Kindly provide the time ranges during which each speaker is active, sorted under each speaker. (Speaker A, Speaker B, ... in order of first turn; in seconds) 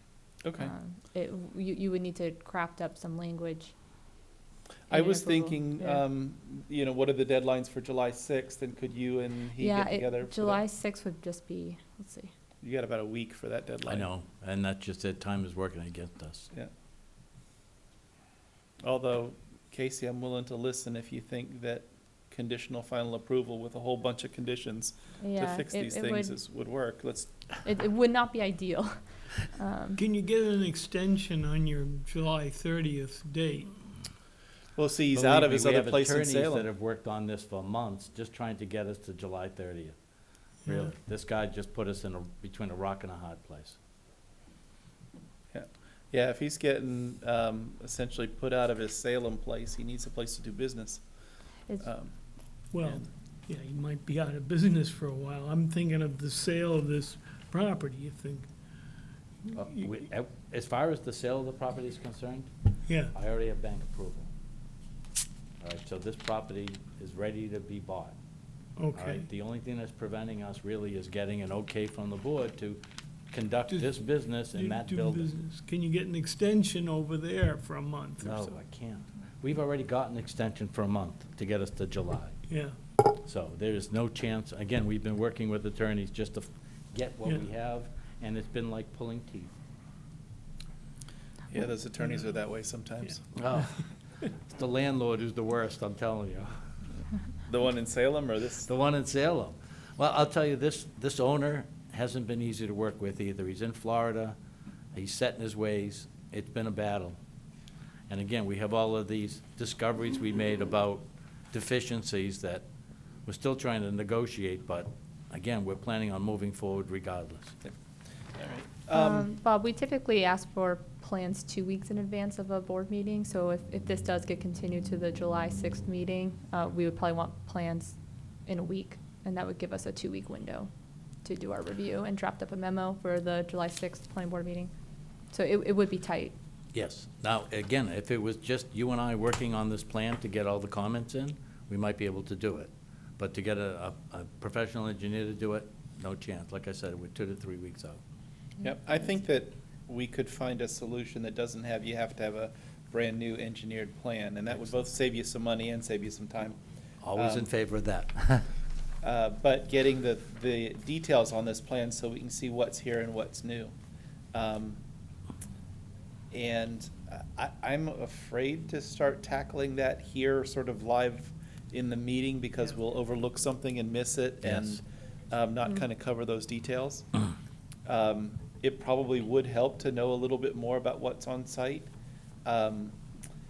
Speaker A: 0.4-0.7, 4.9-10.6, 12.6-14.1, 18.8-27.3, 34.8-36.7, 45.5-51.0, 51.8-52.1, 52.8-53.0, 91.5-93.2, 97.5-98.7, 118.4-119.3, 148.6-156.6, 157.2-157.5, 159.0-163.7, 164.3-164.8, 166.3-177.1, 177.9-181.9, 182.4-183.0
Speaker B: 0.6-3.7, 4.9-6.0, 9.6-12.3, 25.2-26.4, 27.6-30.0, 118.9-128.0, 128.5-130.7, 131.2-134.7, 135.3-136.4
Speaker C: 13.9-16.5, 35.1-40.0, 40.7-43.8, 59.5-62.5, 63.1-64.3, 65.6-68.2, 68.9-72.8, 73.3-75.3, 78.2-82.4, 83.1-89.5, 93.3-93.8, 94.3-96.6, 98.7-104.4, 104.9-107.2, 108.1-112.7, 113.3-117.6, 136.7-148.0, 157.0-158.5, 174.4-174.8
Speaker D: 30.0-33.7, 40.6-40.9, 52.7-58.5, 59.5-59.8, 62.9-63.1, 68.8-69.3, 73.7-78.5, 82.5-82.8